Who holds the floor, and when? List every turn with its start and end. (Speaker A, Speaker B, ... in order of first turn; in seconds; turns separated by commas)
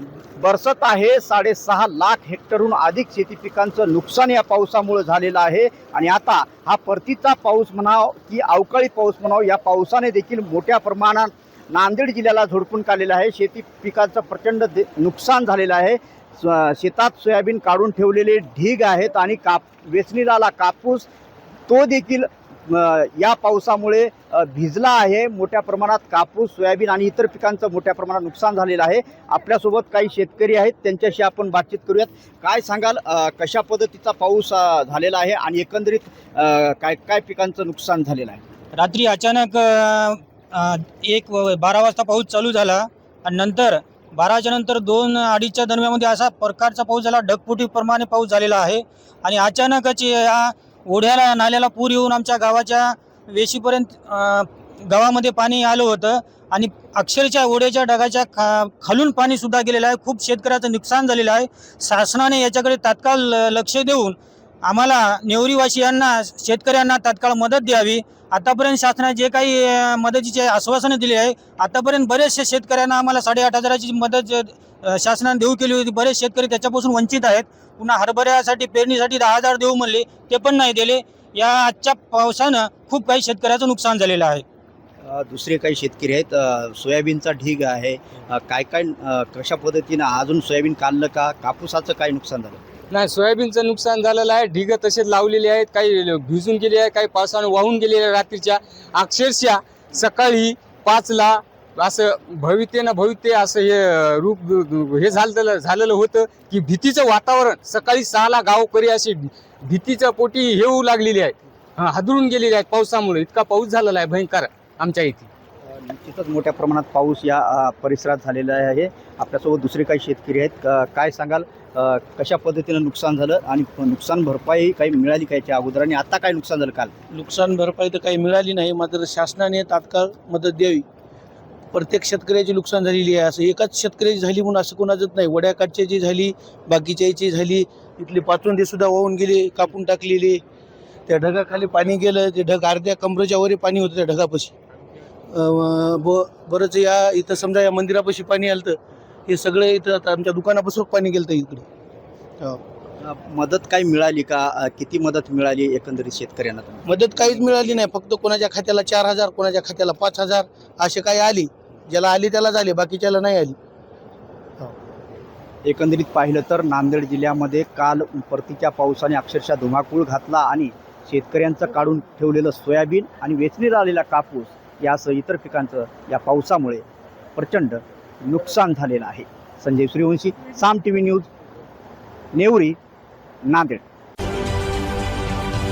Speaker A: 0.4-21.1, Speaker A: 21.7-38.4, Speaker B: 38.7-84.4, Speaker A: 85.0-92.6, Speaker C: 92.9-115.3, Speaker A: 115.7-126.9, Speaker D: 127.1-130.8, Speaker D: 131.7-140.4, Speaker D: 141.1-144.5, Speaker D: 145.3-151.6, Speaker A: 153.0-157.8, Speaker D: 156.8-163.5, Speaker A: 165.6-176.8, Speaker A: 177.3-181.3, Speaker A: 182.3-182.8, Speaker A: 183.5-183.8